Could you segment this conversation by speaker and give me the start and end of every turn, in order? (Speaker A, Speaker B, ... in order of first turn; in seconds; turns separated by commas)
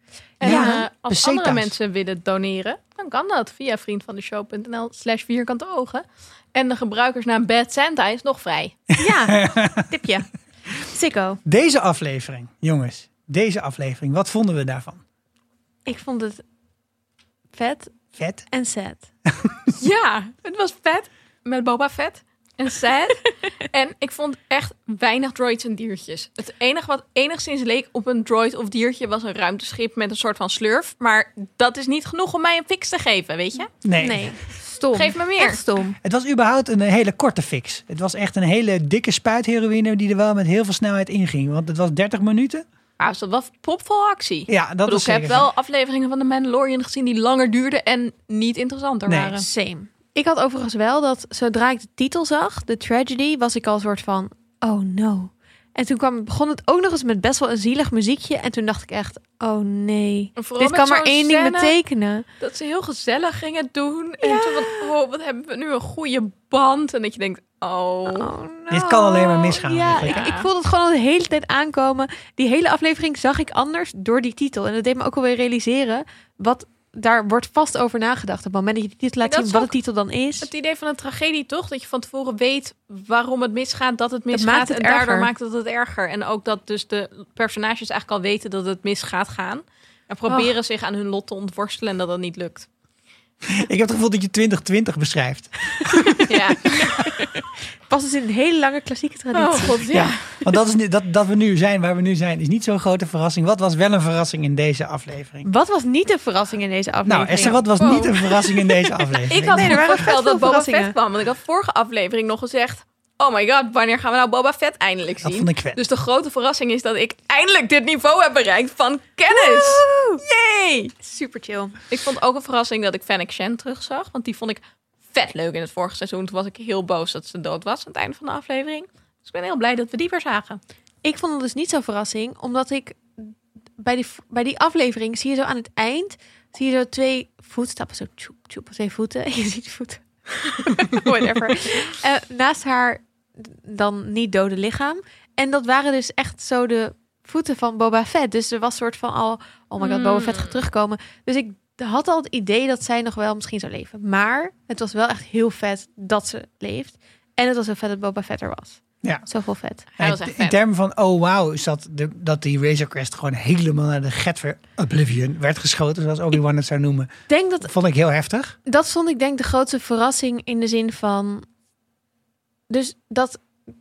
Speaker A: 0.4-8.8, Speaker B: 0.4-1.7, Speaker C: 0.4-0.8, Speaker C: 9.0-10.3, Speaker B: 9.3-9.8, Speaker C: 10.8-11.4, Speaker B: 11.4-15.0, Speaker C: 15.8-16.4, Speaker C: 17.5-17.9, Speaker B: 18.1-18.4, Speaker C: 18.5-19.1, Speaker A: 19.8-33.7, Speaker B: 33.8-34.3, Speaker C: 34.0-36.0, Speaker A: 34.9-35.6, Speaker B: 36.0-42.6, Speaker A: 43.0-49.5, Speaker B: 44.5-45.5, Speaker B: 49.1-49.3, Speaker C: 49.4-62.2, Speaker A: 60.4-61.8, Speaker A: 62.4-68.3, Speaker C: 64.2-64.9, Speaker C: 68.0-80.5, Speaker B: 68.7-70.2, Speaker A: 70.1-70.5, Speaker A: 79.2-79.7, Speaker A: 80.4-92.7, Speaker C: 84.3-85.3, Speaker C: 90.3-90.5, Speaker B: 93.5-96.3, Speaker A: 96.2-97.2, Speaker C: 97.9-100.1, Speaker A: 99.3-100.4, Speaker B: 99.9-105.5, Speaker C: 105.4-107.6, Speaker B: 107.0-109.8, Speaker A: 107.5-108.7, Speaker A: 109.2-120.9, Speaker C: 109.4-111.0, Speaker B: 115.2-115.8, Speaker C: 119.3-120.2, Speaker C: 121.0-121.8, Speaker A: 121.9-130.6, Speaker C: 131.0-159.8, Speaker A: 140.8-141.9, Speaker A: 149.8-150.6, Speaker A: 160.0-160.6, Speaker B: 160.0-168.6, Speaker C: 167.3-167.7, Speaker C: 168.7-171.4, Speaker C: 172.7-173.4